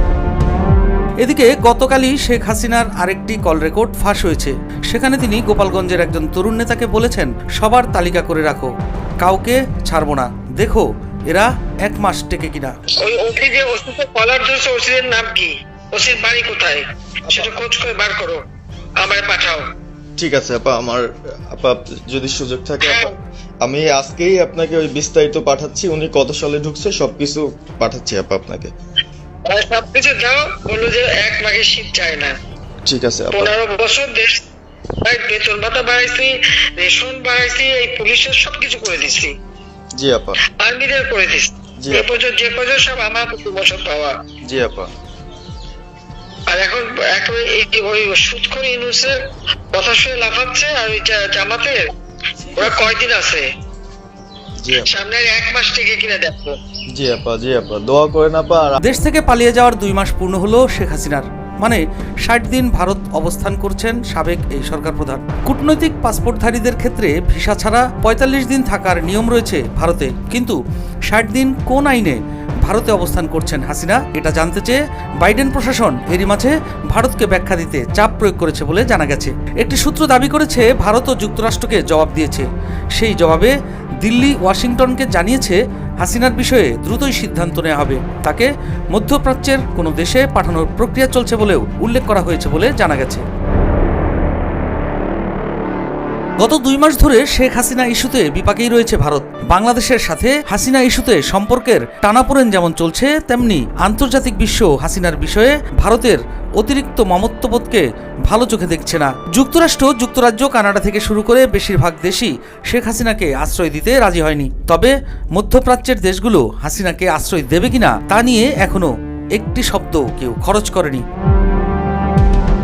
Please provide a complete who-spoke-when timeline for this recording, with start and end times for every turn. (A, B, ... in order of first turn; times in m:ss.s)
0:01.2-0:12.7 A
0:13.0-0:18.4 B
0:19.0-0:19.6 B
0:20.2-0:28.7 C
0:22.8-0:23.1 B
0:29.5-0:32.3 B
0:32.8-0:33.5 C
0:33.3-0:34.4 B
0:35.0-0:39.3 B
0:39.9-0:40.4 C
0:40.6-0:44.2 B
0:41.8-0:42.1 C
0:44.4-0:44.9 C
0:46.5-0:49.2 B
0:49.7-0:51.9 B
0:52.6-0:53.4 B
0:54.6-0:55.0 C
0:54.8-0:56.6 B
0:56.9-0:58.8 C
0:58.8-1:10.6 A
1:11.1-1:33.2 A
1:36.4-2:01.0 A